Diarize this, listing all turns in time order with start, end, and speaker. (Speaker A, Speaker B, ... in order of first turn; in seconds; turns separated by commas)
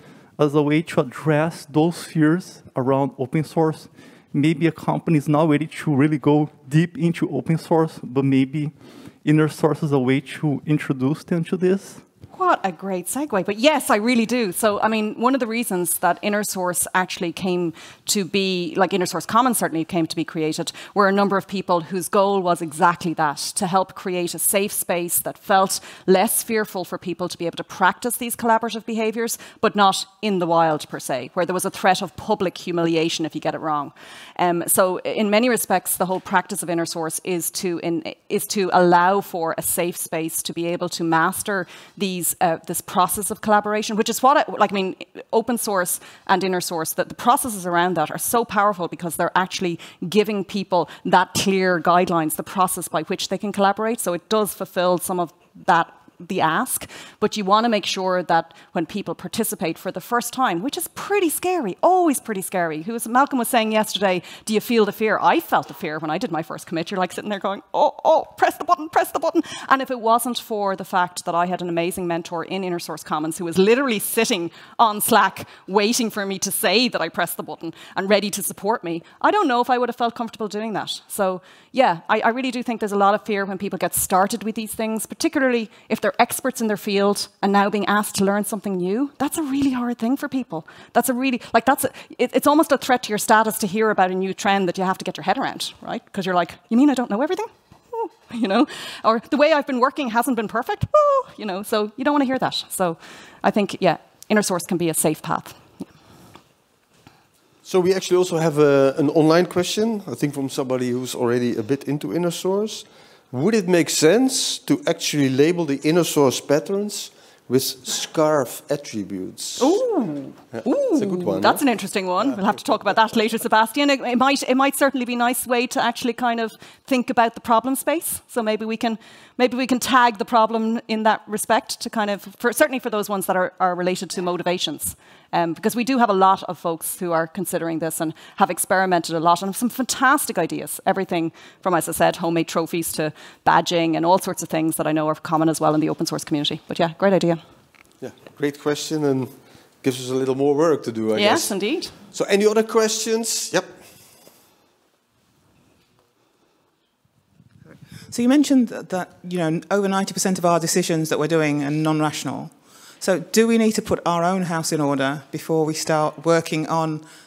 Speaker A: 0.4-12.0, Speaker B: 12.3-105.9, Speaker C: 107.7-119.8, Speaker B: 119.6-147.4, Speaker C: 120.5-121.6, Speaker C: 148.0-153.8, Speaker B: 151.1-151.9, Speaker D: 158.1-167.1